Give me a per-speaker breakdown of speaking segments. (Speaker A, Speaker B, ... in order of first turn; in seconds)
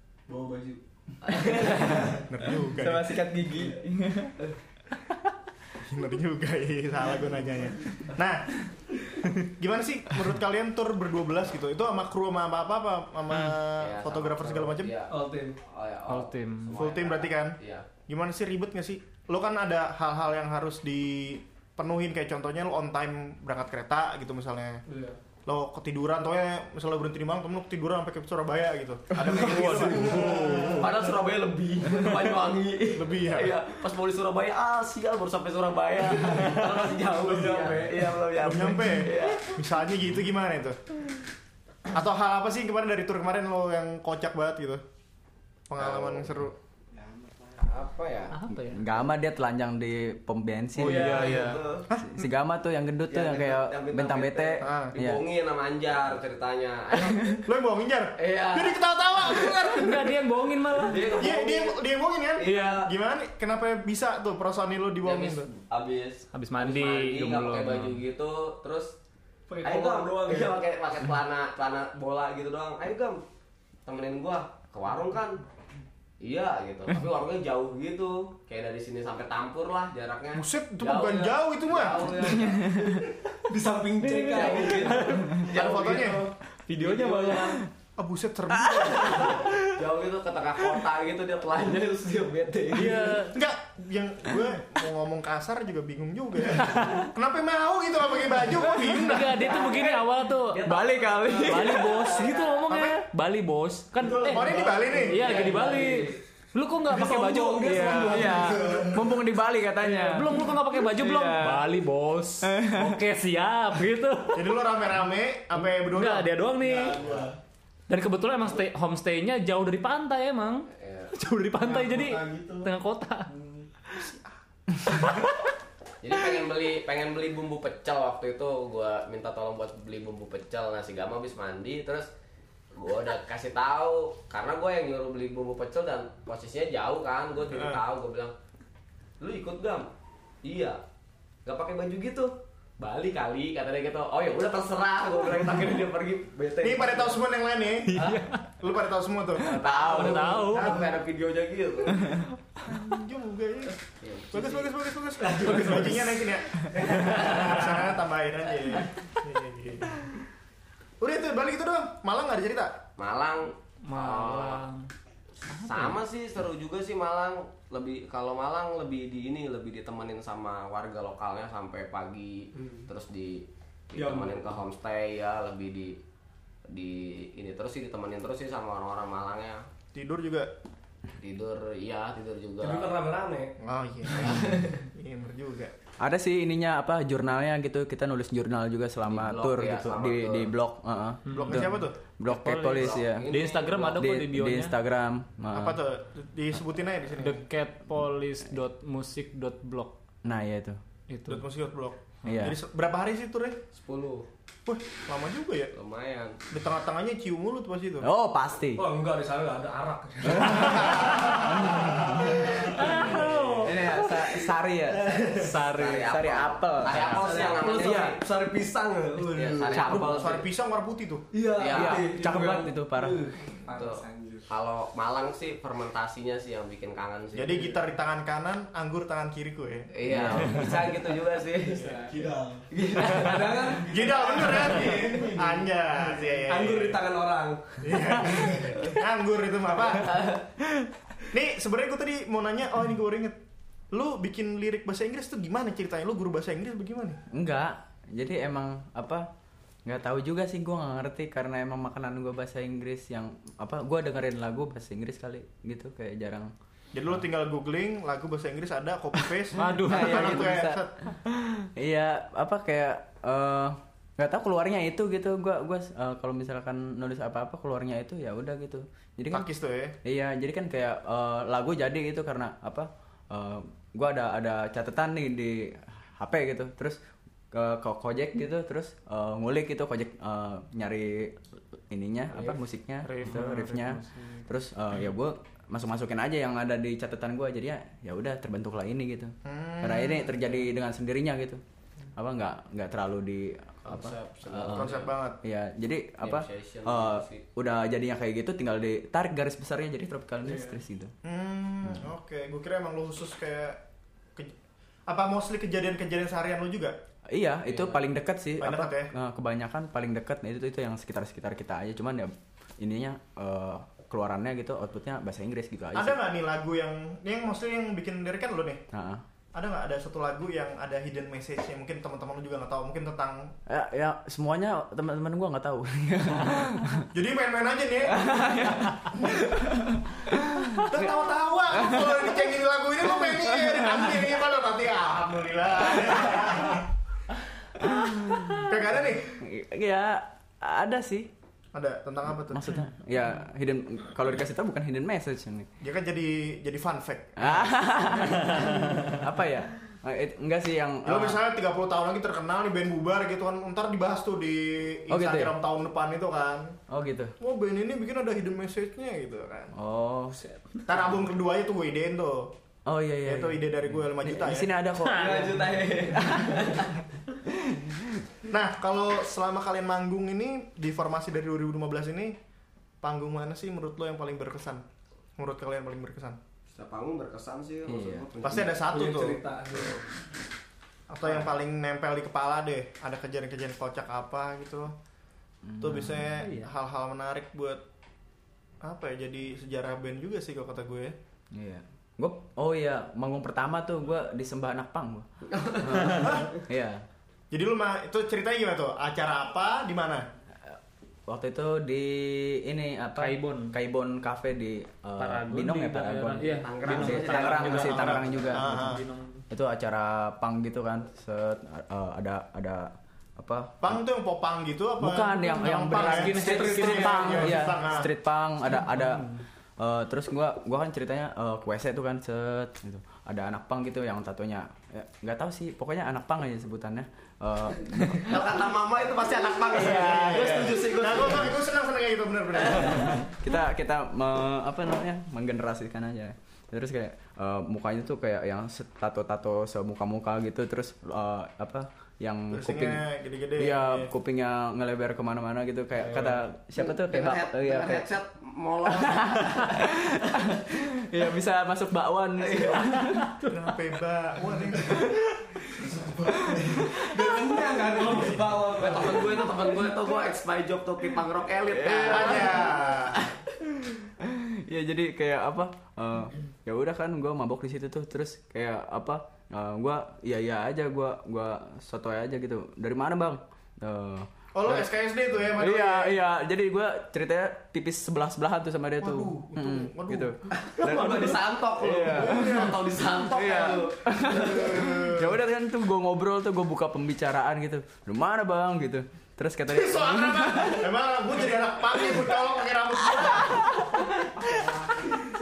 Speaker A: 0.3-2.2, 15.1-15.6, 24.9-25.1, 29.2-30.8, 36.2-39.0, 51.1-51.5, 69.5-70.6, 81.9-87.6, 91.6-93.3, 99.5-99.9, 104.0-106.1, 106.9-109.2, 116.6-117.3, 121.6-122.7, 123.3-123.7, 155.2-157.7, 172.6-172.8, 173.9-174.4, 182.6-183.5, 184.2-184.8, 208.8-215.6, 217.0-220.0, 221.3-224.4, 231.6-239.0, 365.1-367.0, 378.8-380.0, 430.3-430.6, 455.7-459.7, 480.6-481.3
Speaker B: 1.3-1.7, 13.8-17.9, 30.7-39.5, 45.8-46.3, 47.5-48.5, 50.8-51.8, 53.1-57.4, 58.2-59.3, 60.9-61.8, 62.4-62.8, 65.0-68.9, 69.6-73.2, 73.8-75.4, 76.2-82.6, 84.3-86.2, 86.8-87.4, 89.6-92.1, 99.5-100.0, 100.5-102.5, 105.2-105.9, 120.7-121.1, 126.0-132.1, 132.8-138.3, 139.2-139.9, 140.4-140.8, 141.4-147.2, 149.4-152.2, 154.0-154.7, 163.0-164.6, 165.6-176.0, 176.7-179.6, 181.2-183.0, 189.1-190.5, 192.8-194.0, 203.7-204.3, 205.7-206.4, 215.7-218.2, 219.3-220.4, 221.6-222.1, 223.7-227.8, 229.9-232.0, 232.7-233.3, 293.8-295.1, 296.2-297.4, 307.7-308.0, 376.7-378.8, 395.5-395.9, 406.6-408.1, 428.2-431.5, 446.8-449.8, 452.4-452.8, 458.8-462.6, 480.8-484.6
Speaker C: 1.4-4.3, 48.7-51.3, 52.0-55.2, 82.4-83.0, 87.4-87.7, 88.6-88.9, 100.6-102.1, 108.0-110.5, 111.0-111.5, 112.4-113.0, 186.0-193.3, 193.9-195.8, 200.2-200.8, 202.2-202.6, 208.0-208.8, 210.2-210.7, 211.3-215.1, 215.8-218.2, 219.7-220.3, 221.7-223.2, 230.1-230.7, 247.3-249.2, 249.8-256.5, 259.6-269.4, 270.0-277.0, 277.5-291.6, 292.1-301.1, 307.3-316.2, 318.9-319.2, 323.7-327.1, 328.1-331.1, 331.7-332.2, 333.3-334.1, 337.8-338.7, 339.4-341.3, 342.5-345.7, 347.4-351.4, 355.1-355.5, 356.9-357.3, 359.7-360.4, 362.9-366.7, 367.5-368.2, 377.9-378.3, 385.6-386.3, 391.5-397.0, 400.6-408.9, 409.5-414.0, 415.0-428.4, 429.7-430.9, 433.3-443.0, 443.6-448.1, 448.9-453.4, 456.4-457.1, 461.7-462.8, 463.8-474.9, 475.5-490.9
Speaker D: 2.3-3.2, 5.8-8.6, 9.2-14.9, 16.7-24.8, 25.4-30.9, 32.9-33.5, 38.4-40.8, 41.9-44.8, 45.7-46.5, 51.9-52.2, 54.6-54.9, 57.5-60.2, 61.2-65.5, 80.3-82.1, 85.5-86.3, 88.0-89.4, 93.3-99.4, 102.7-103.0, 104.2-105.2, 114.3-116.8, 124.0-124.3, 137.5-137.8, 146.6-150.9, 152.6-153.8, 154.3-160.1, 161.0-162.8, 179.9-180.5, 183.6-185.7, 191.3-191.9, 195.5-197.4, 201.3-203.6, 204.7-205.7, 206.5-208.1, 219.8-221.2, 227.3-229.9, 233.8-237.0, 237.8-240.2, 241.3-243.4, 243.9-247.2, 256.9-260.9, 269.3-269.9, 289.4-290.6, 294.7-295.4, 301.2-303.8, 305.1-306.9, 308.6-309.1, 315.9-318.8, 319.5-323.5, 327.1-328.5, 329.2-329.4, 330.8-336.9, 338.6-339.4, 341.7-342.7, 345.8-348.7, 351.0-356.8, 357.4-359.7, 360.9-362.5, 363.2-364.7, 368.5-372.4, 373.0-374.8, 375.4-376.4, 378.4-379.4, 381.1-384.9, 385.8-387.8, 388.8-391.1, 396.2-396.5, 397.5-400.2, 407.9-409.0, 413.8-418.1, 430.8-433.2, 442.5-444.1, 453.5-455.1, 462.0-463.2, 474.5-476.2, 479.0-480.4, 482.1-482.8, 484.3-485.4, 489.7-495.1
Speaker E: 13.3-13.6, 16.1-16.8, 29.4-30.8, 48.3-48.8, 50.8-51.6, 59.7-61.2, 62.4-62.9, 66.3-68.0, 84.8-85.2, 92.7-93.4, 96.6-97.1, 98.8-100.8, 101.4-108.7, 109.8-114.5, 115.6-117.0, 117.9-123.3, 147.9-148.4, 149.8-150.8, 163.8-164.9, 165.5-165.9, 191.2-191.7, 192.2-194.7, 197.2-199.9, 201.1-201.5, 212.8-213.7, 215.3-216.1, 259.6-260.4, 283.0-284.4, 365.0-365.5, 386.4-386.7, 403.2-403.7, 405.2-409.4, 415.8-417.8, 418.7-419.4